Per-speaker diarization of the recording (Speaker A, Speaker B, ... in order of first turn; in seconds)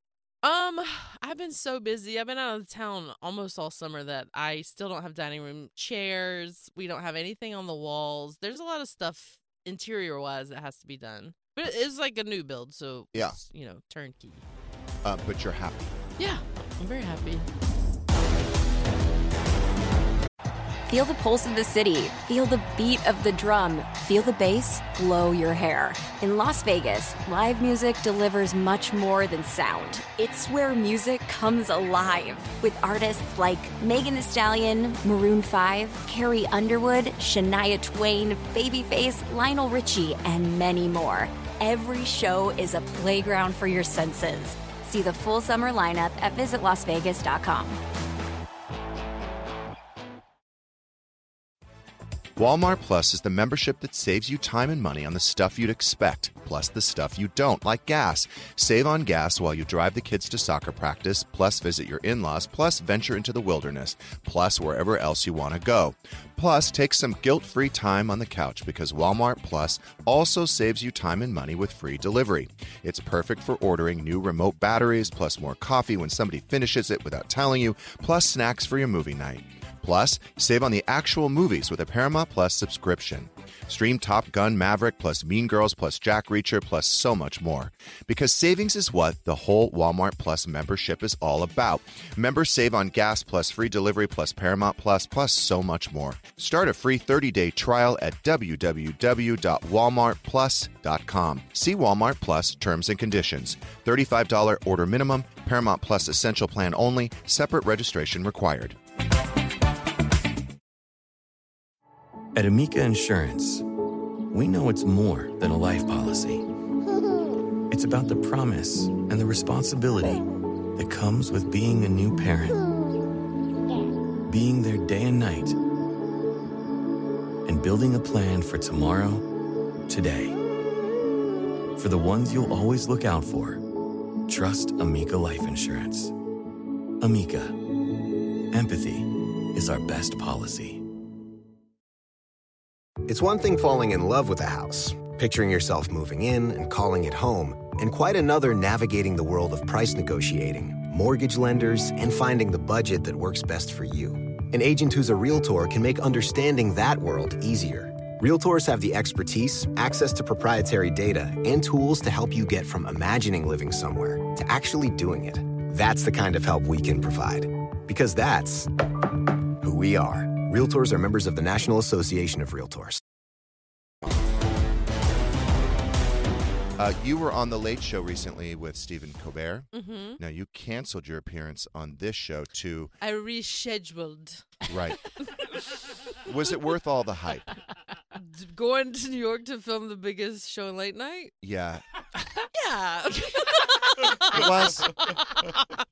Speaker A: 0.4-14.4, 16.2-17.5, 179.7-180.2, 183.0-184.6, 188.1-191.3, 192.5-195.7
Speaker B: 13.1-13.4, 15.0-15.9, 52.4-108.8, 176.8-182.9, 184.7-185.1, 186.2-187.5, 191.4-191.8, 194.3-195.0
Speaker C: 20.9-47.8
Speaker D: 112.3-113.6, 114.3-116.5, 117.7-122.6, 124.3-125.6, 127.5-129.3, 129.9-130.4, 131.8-133.6, 134.3-136.1, 137.0-137.6, 138.5-140.8
Speaker E: 143.1-168.7, 169.6-173.0